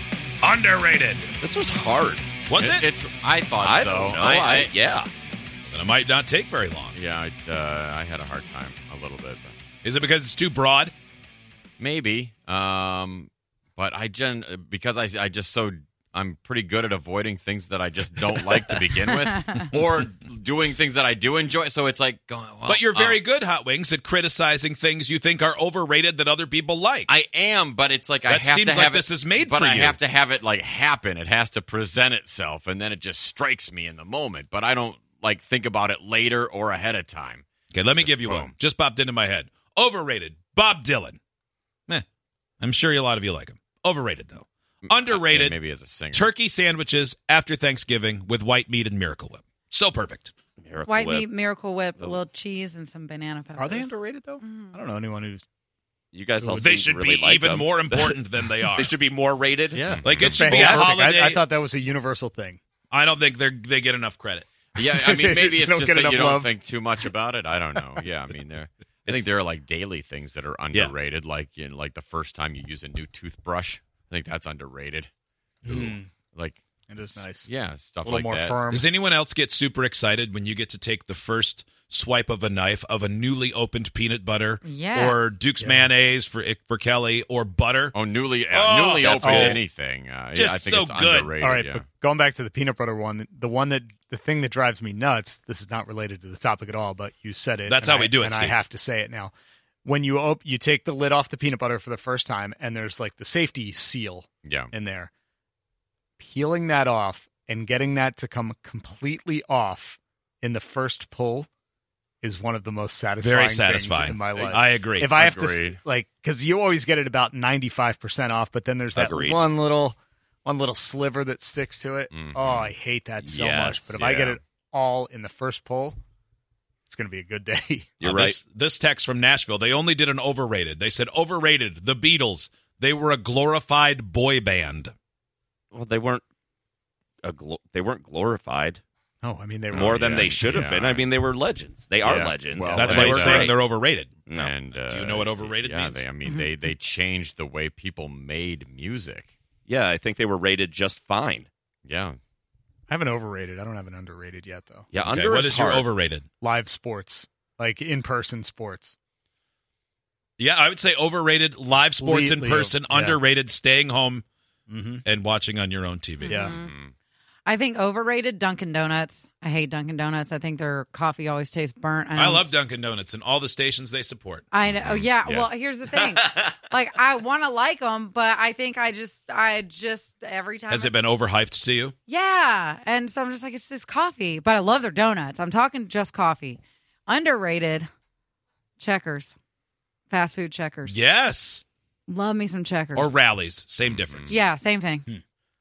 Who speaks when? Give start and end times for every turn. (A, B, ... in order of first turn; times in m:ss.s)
0:00.4-0:01.3 A
0:01.4-0:02.3 B
0:02.5-0:02.8 A
0:02.6-0:04.7 C
0:03.6-0:05.1 B
0:05.7-0:06.9 A
0:06.9-0:09.6 C
0:09.8-0:10.9 A
0:11.8-0:23.2 C
0:22.7-0:27.1 A
0:27.1-0:38.5 C
0:28.3-0:30.0 A
0:37.7-0:41.2 A
0:42.6-0:45.6 A
0:44.8-0:46.3 C
0:46.1-0:50.3 A
0:50.6-0:51.3 B
0:50.9-0:54.7 D
0:53.6-0:55.4 E
0:56.1-0:58.2 B
0:56.4-0:56.8 E
0:56.6-0:58.9 A
0:58.7-1:00.8 B
0:59.7-1:00.7 C
1:00.0-1:01.4 A
1:00.2-1:02.6 E
1:02.9-1:04.5 A
1:04.7-1:15.1 C
1:04.8-1:06.5 E
1:15.6-1:16.1 E
1:16.3-1:18.6 C
1:16.9-1:17.5 E
1:18.0-1:18.9 E
1:18.7-1:27.9 A
1:24.6-1:25.3 D
1:25.6-1:25.9 E
1:27.9-1:31.8 C
1:28.5-1:29.6 A
1:29.1-1:29.6 E
1:30.3-1:31.3 A
1:31.4-1:39.3 E
1:37.7-1:38.6 A
1:39.8-1:45.1 E
1:44.4-1:44.7 C
1:46.2-1:51.5 E
1:52.2-2:06.0 E
1:53.2-1:55.1 A
1:55.1-1:55.8 C
1:58.9-1:59.4 B
2:02.1-2:02.7 C
2:03.2-2:04.0 B
2:03.9-2:04.4 C
2:06.9-2:08.0 E
2:08.0-2:08.4 B
2:08.0-2:14.9 A
2:15.7-2:16.2 B
2:17.2-2:18.8 B
2:19.2-2:20.6 E
2:19.7-2:23.6 B
2:19.7-2:21.1 C
2:22.0-2:23.6 C
2:22.7-2:24.1 A
2:24.3-2:24.5 B
2:24.3-2:29.3 C
2:24.8-2:26.0 A
2:29.7-2:31.5 B
2:31.8-2:32.2 C
2:32.9-2:34.9 E
2:34.9-2:35.9 B
2:35.1-2:36.3 A
2:36.4-2:38.9 E
2:40.4-2:44.2 A
2:42.0-2:43.2 E
2:44.7-2:45.0 E
2:45.0-2:46.4 A
2:46.2-2:46.7 D
2:46.3-2:46.5 E
2:46.4-2:46.9 C
2:47.4-2:52.6 D
2:52.1-2:54.4 A
2:54.5-3:01.0 D
2:54.7-2:55.5 C
2:56.2-2:56.5 B
3:00.7-3:01.9 A
3:02.1-3:07.9 D
3:08.8-3:09.3 D
3:10.1-3:11.0 D
3:10.9-3:11.6 A
3:12.1-3:13.2 D
3:13.0-3:14.4 A
3:13.8-3:14.3 C
3:14.3-3:15.0 D